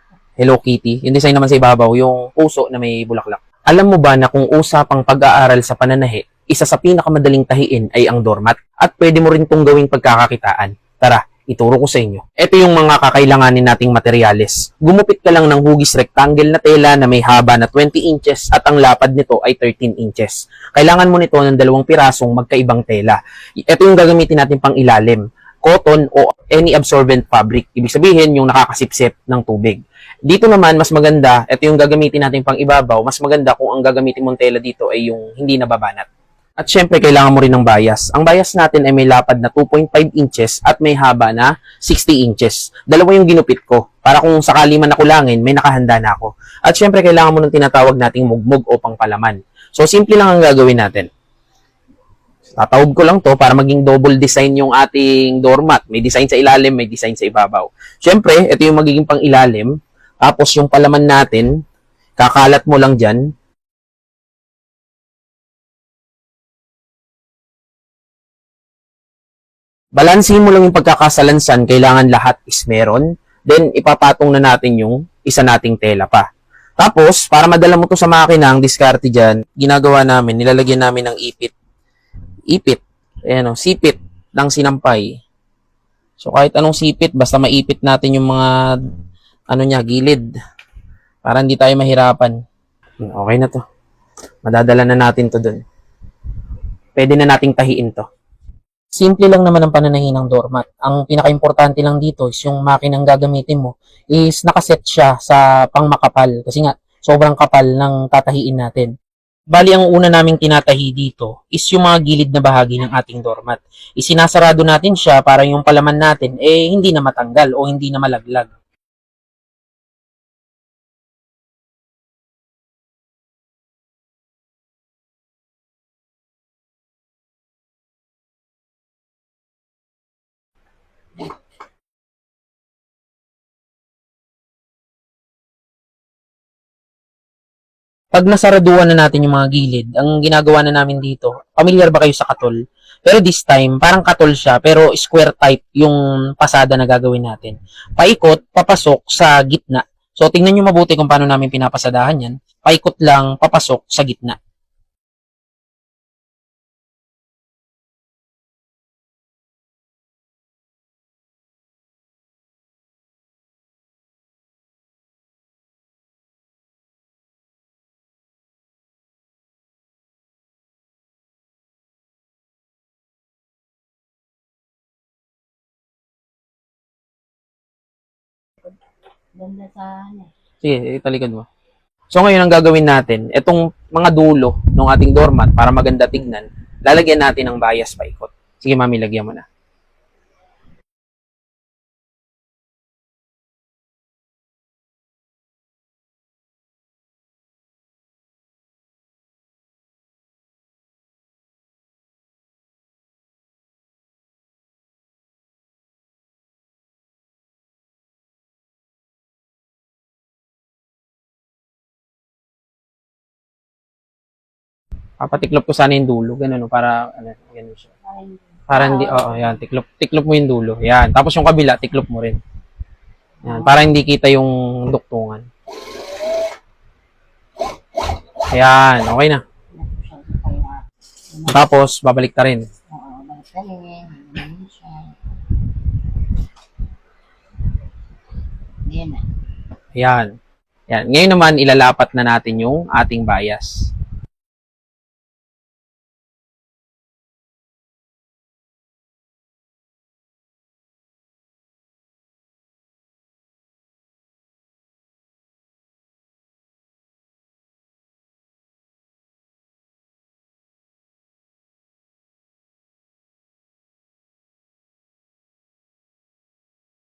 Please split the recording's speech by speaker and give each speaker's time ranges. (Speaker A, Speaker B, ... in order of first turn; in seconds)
Speaker A: 0.4-36.1, 36.6-51.1, 52.5-59.7, 60.2-61.5, 62.2-63.2, 70.0-76.2, 76.8-81.5, 82.5-85.1, 86.2-88.7, 89.5-90.2, 91.2-92.4, 93.0-93.6, 94.4-95.6, 97.0-98.0, 99.0-108.9, 109.5-118.5, 138.1-154.4, 180.6-181.5, 182.1-189.4, 215.2-217.9, 218.7-222.4, 223.4-225.4, 228.5-229.4, 231.5-232.7, 239.9-240.3, 240.9-243.9
Speaker B: 179.3-180.3, 218.1-219.6, 223.4-223.7, 229.7-231.6, 232.9-235.6, 238.9-239.3